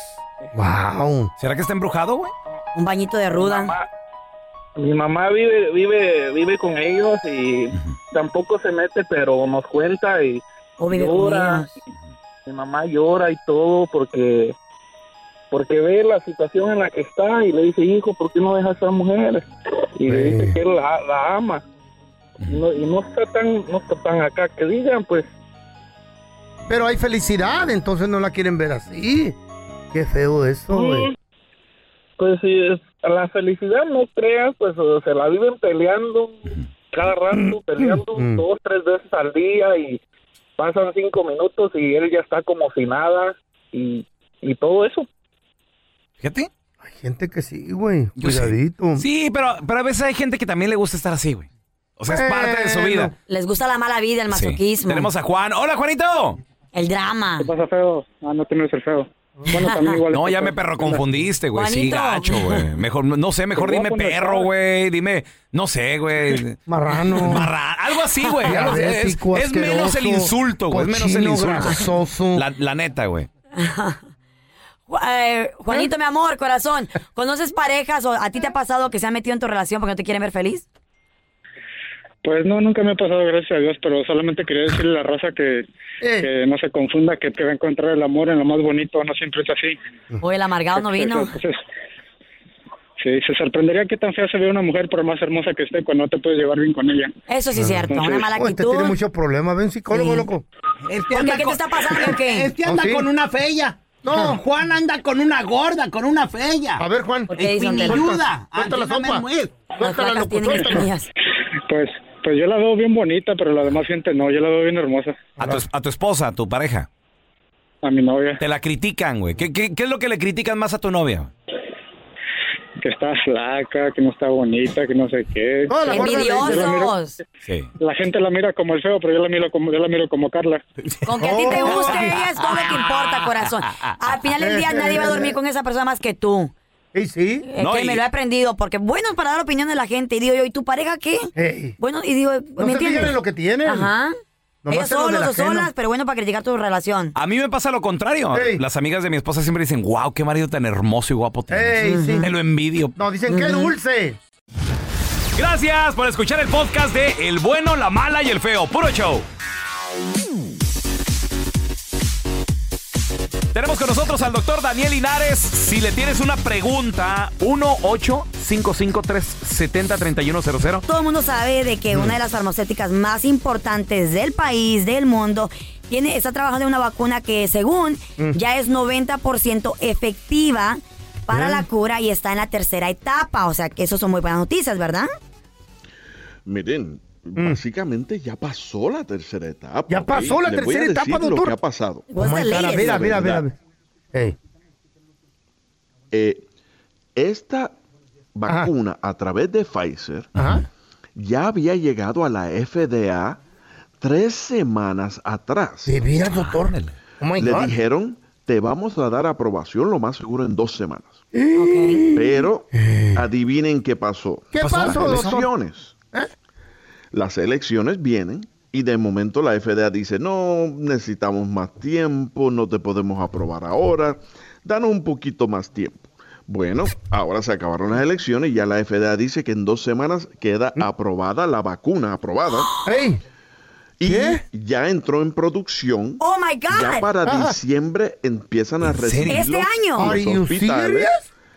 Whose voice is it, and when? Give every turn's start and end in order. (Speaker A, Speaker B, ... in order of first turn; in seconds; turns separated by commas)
Speaker A: 0.5-1.3, Speaker B: 1.4-2.3, Speaker C: 2.7-3.7, Speaker D: 3.3-3.9, Speaker D: 4.8-11.7, Speaker C: 10.8-11.7, Speaker D: 12.5-14.5, Speaker D: 15.5-19.4, Speaker D: 20.0-21.6, Speaker A: 20.1-20.6, Speaker D: 22.4-25.3, Speaker A: 26.7-29.4, Speaker A: 29.9-31.1, Speaker D: 30.7-31.1, Speaker D: 32.2-40.0, Speaker A: 38.1-38.4, Speaker D: 40.6-45.1, Speaker B: 46.2-46.5, Speaker A: 46.8-49.0, Speaker B: 48.2-53.1, Speaker A: 52.1-53.1, Speaker C: 53.3-55.1, Speaker B: 54.3-56.4, Speaker C: 56.7-57.5, Speaker E: 57.4-61.0, Speaker C: 59.5-60.0, Speaker B: 60.1-66.6, Speaker C: 61.5-62.6, Speaker E: 63.6-64.5, Speaker A: 66.7-67.5, Speaker B: 67.2-73.3, Speaker A: 68.4-72.5, Speaker C: 73.5-74.0, Speaker C: 74.9-80.6, Speaker E: 82.2-85.7, Speaker A: 86.0-86.3, Speaker E: 86.2-89.8, Speaker C: 90.2-91.4, Speaker E: 90.8-91.6, Speaker E: 93.0-97.1, Speaker C: 97.3-98.9, Speaker A: 97.6-100.4, Speaker E: 97.9-98.2, Speaker C: 99.9-100.3, Speaker F: 100.8-109.5, Speaker C: 101.1-102.5, Speaker A: 102.6-103.1, Speaker A: 104.0-104.4, Speaker A: 106.8-110.9, Speaker C: 107.3-108.1, Speaker C: 109.8-111.1, Speaker E: 111.7-115.2, Speaker A: 115.4-115.6, Speaker B: 115.4-116.9, Speaker E: 117.8-118.4, Speaker B: 118.4-121.3, Speaker E: 122.8-126.9, Speaker A: 125.7-126.7, Speaker C: 125.8-127.2, Speaker B: 127.4-127.7, Speaker E: 127.8-130.6, Speaker B: 130.9-132.9, Speaker C: 131.1-136.5, Speaker A: 131.2-132.1, Speaker A: 134.4-135.4, Speaker A: 136.9-137.5, Speaker C: 137.5-144.1, Speaker B: 137.6-138.0, Speaker A: 141.3-141.8, Speaker A: 142.6-143.9, Speaker A: 144.6-145.7, Speaker C: 144.7-147.1, Speaker B: 147.1-152.9, Speaker A: 148.3-148.6, Speaker A: 151.5-152.3, Speaker C: 151.8-152.3, Speaker A: 152.9-154.2, Speaker C: 153.3-153.7, Speaker B: 155.3-159.2, Speaker B: 163.5-170.8, Speaker C: 170.8-185.1, Speaker A: 181.3-181.7, Speaker G: 186.4-192.1, Speaker A: 189.9-191.5, Speaker C: 192.1-193.1, Speaker A: 192.1-193.5, Speaker G: 192.6-193.4, Speaker G: 196.1-196.4, Speaker G: 197.2-197.7, Speaker G: 198.3-200.3, Speaker A: 200.3-200.7, Speaker G: 201.2-203.4, Speaker G: 204.0-206.0, Speaker A: 205.8-207.8, Speaker B: 206.2-206.9, Speaker G: 207.3-211.2, Speaker A: 211.3-213.2, Speaker C: 211.6-212.0, Speaker G: 212.1-215.9, Speaker A: 214.5-215.5, Speaker B: 214.6-215.4, Speaker G: 217.1-232.7, Speaker A: 232.8-233.2, Speaker G: 234.0-241.1, Speaker A: 234.0-234.4, Speaker C: 236.2-237.1, Speaker A: 237.2-237.6, Speaker B: 238.8-239.4, Speaker C: 239.3-240.2, Speaker A: 240.0-241.3